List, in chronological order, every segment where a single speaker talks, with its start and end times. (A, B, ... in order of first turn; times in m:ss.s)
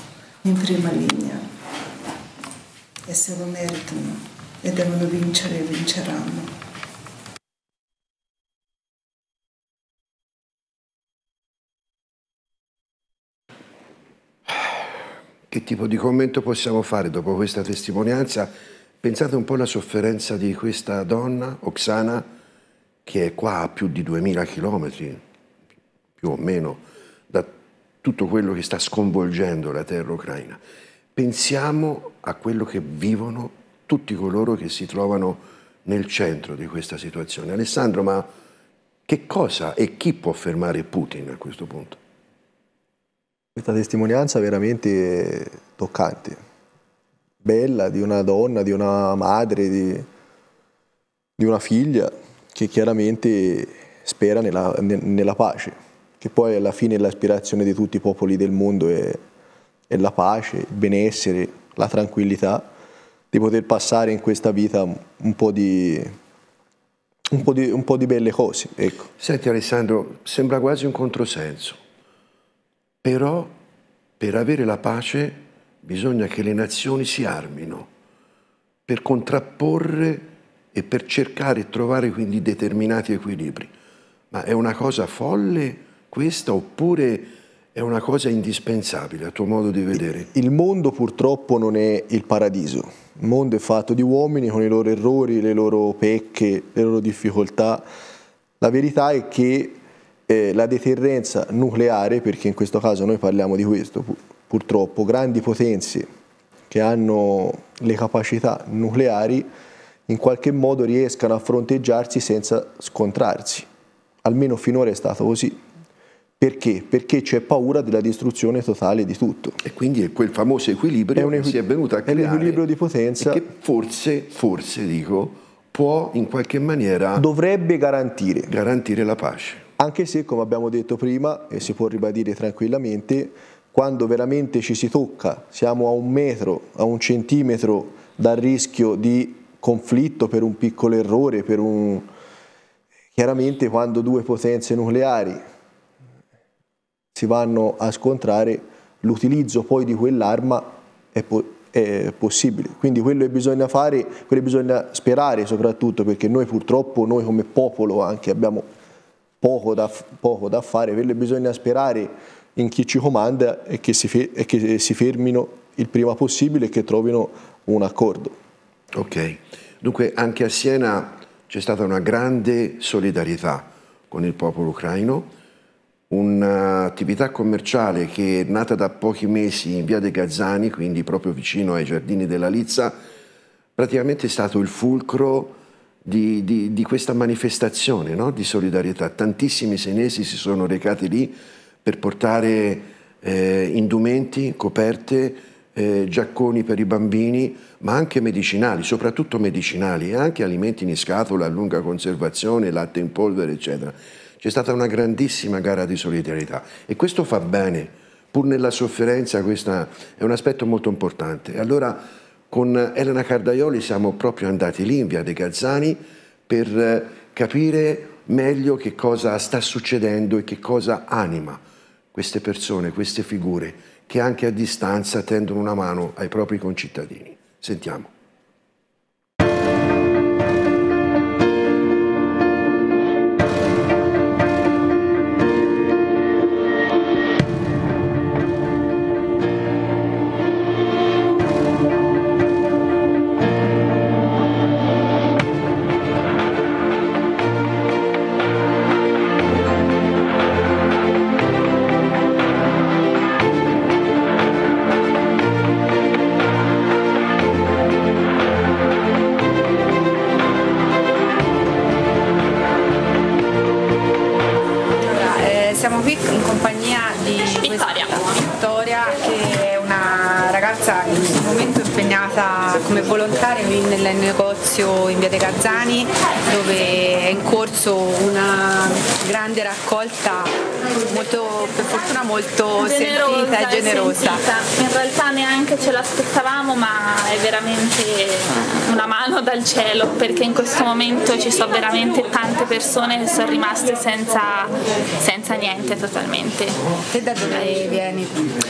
0:00.4-0:01.4 A
0:03.1-0:06.5 A
0:15.5-0:22.2 B
0:23.0-0:25.2 B
0:26.2-0:30.6 B
0:31.1-0:38.3 B
0:39.1-0:42.0 B
0:43.6-0:46.4 C
0:47.4-0:50.1 C
0:51.4-0:59.2 C
0:59.9-1:02.7 C
1:03.3-1:06.1 C
1:07.3-1:09.1 C
1:09.2-1:11.8 B
1:13.0-1:13.5 B
1:14.2-1:17.9 B
1:18.9-1:23.7 B
1:24.3-1:30.3 B
1:30.2-1:37.8 C
1:38.6-1:46.1 C
1:46.7-1:49.5 C
1:50.1-1:53.7 C
1:54.2-1:55.6 C
1:56.4-1:59.6 C
1:59.6-2:02.6 B
2:01.2-2:03.4 C
2:03.2-2:07.3 B
2:07.2-2:08.5 C
2:08.5-2:09.6 B
2:09.8-2:22.1 C
2:23.1-2:25.4 C
2:27.1-2:38.6 C
2:39.4-2:48.4 C
2:48.9-2:55.3 B
2:56.1-3:03.0 B
3:03.8-3:41.6 B
3:42.1-3:48.1 B
4:25.0-4:44.4 D
4:27.6-4:28.2 E
4:42.8-4:56.8 E
4:57.1-4:58.4 D